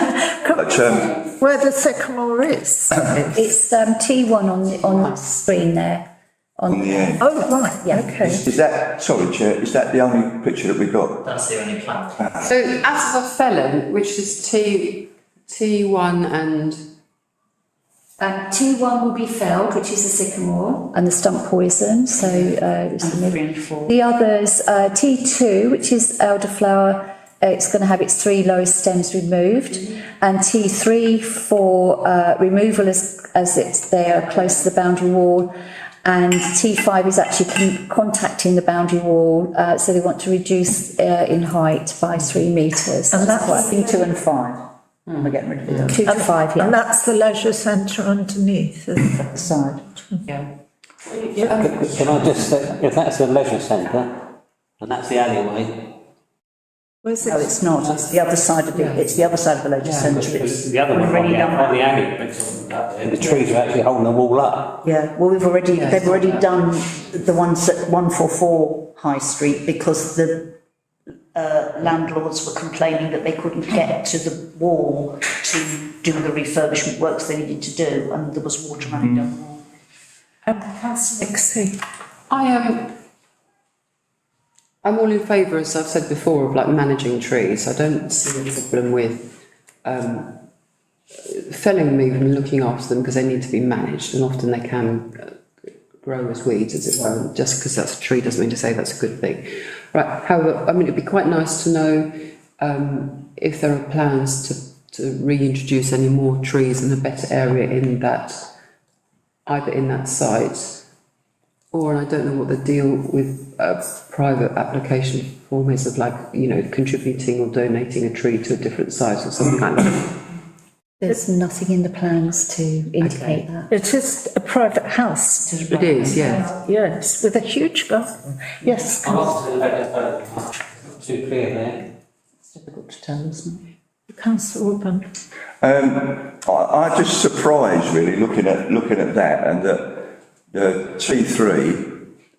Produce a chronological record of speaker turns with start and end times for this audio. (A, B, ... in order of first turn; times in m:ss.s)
0:00.4-0:03.5 A
0:00.5-0:01.2 B
0:03.3-0:06.0 C
0:06.6-0:08.2 C
0:06.7-0:07.2 B
0:07.2-0:08.4 A
0:08.2-0:11.4 B
0:12.4-0:16.8 D
0:18.2-0:35.5 C
0:23.0-0:23.9 E
0:36.0-0:43.7 C
0:43.1-0:44.0 A
0:43.6-0:44.6 E
0:45.2-0:46.0 E
0:45.9-0:46.8 C
0:46.0-0:49.2 A
0:49.2-0:49.8 E
0:51.1-0:51.9 A
0:51.6-0:54.1 F
0:54.8-0:55.7 F
0:57.0-0:57.6 A
0:57.2-1:01.8 E
0:58.7-0:59.0 D
0:59.8-1:00.1 D
1:00.1-1:04.8 F
1:04.8-1:10.6 E
1:05.7-1:06.3 D
1:11.3-1:19.6 E
1:20.4-1:21.8 A
1:22.3-1:22.9 D
1:24.8-1:30.4 D
1:31.2-1:35.3 D
1:36.0-1:48.5 D
1:49.5-1:50.8 D
1:51.7-2:00.2 D
2:01.0-2:03.7 C
2:03.0-2:03.4 D
2:03.7-2:09.3 A
2:05.7-2:06.5 D
2:09.3-2:10.4 F
2:11.0-2:11.7 F
2:12.5-2:13.6 E
2:14.1-2:15.1 A
2:15.6-2:22.0 B